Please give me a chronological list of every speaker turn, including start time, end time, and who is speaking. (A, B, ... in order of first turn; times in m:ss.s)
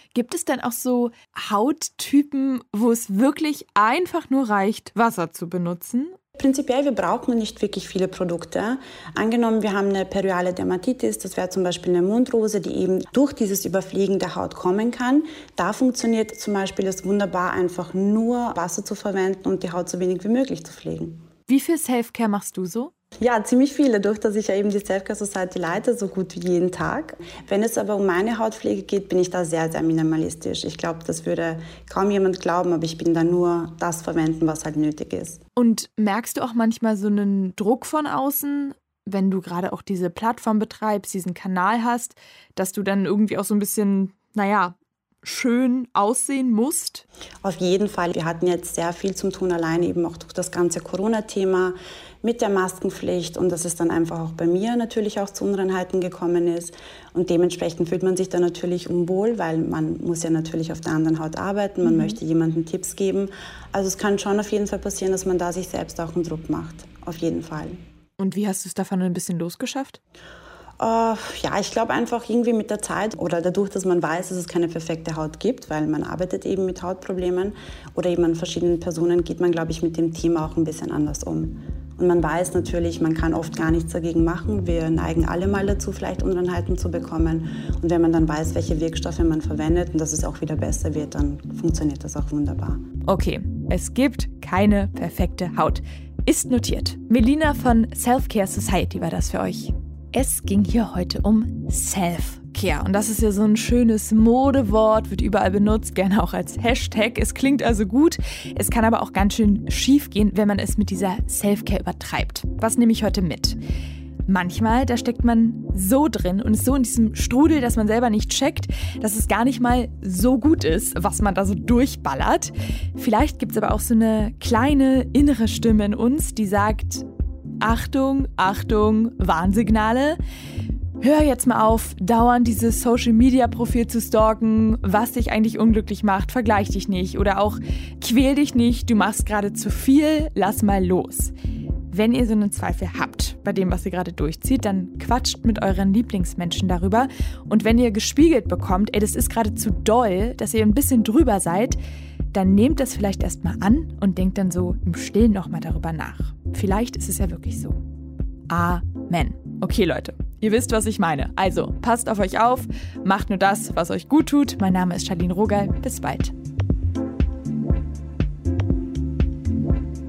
0:00.1-0:06.2 A
0:06.4-0:21.2 B
0:21.5-0:22.9 A
0:23.2-0:35.4 B
0:35.6-0:47.0 A
0:47.4-1:07.8 B
1:01.8-1:02.2 A
1:08.2-1:10.0 A
1:10.8-1:32.8 B
1:33.1-1:53.6 A
1:54.3-2:07.0 A
2:07.6-2:10.2 A
2:11.0-2:21.3 A
2:21.9-2:31.8 A
2:32.3-2:37.8 A
2:38.5-2:46.3 A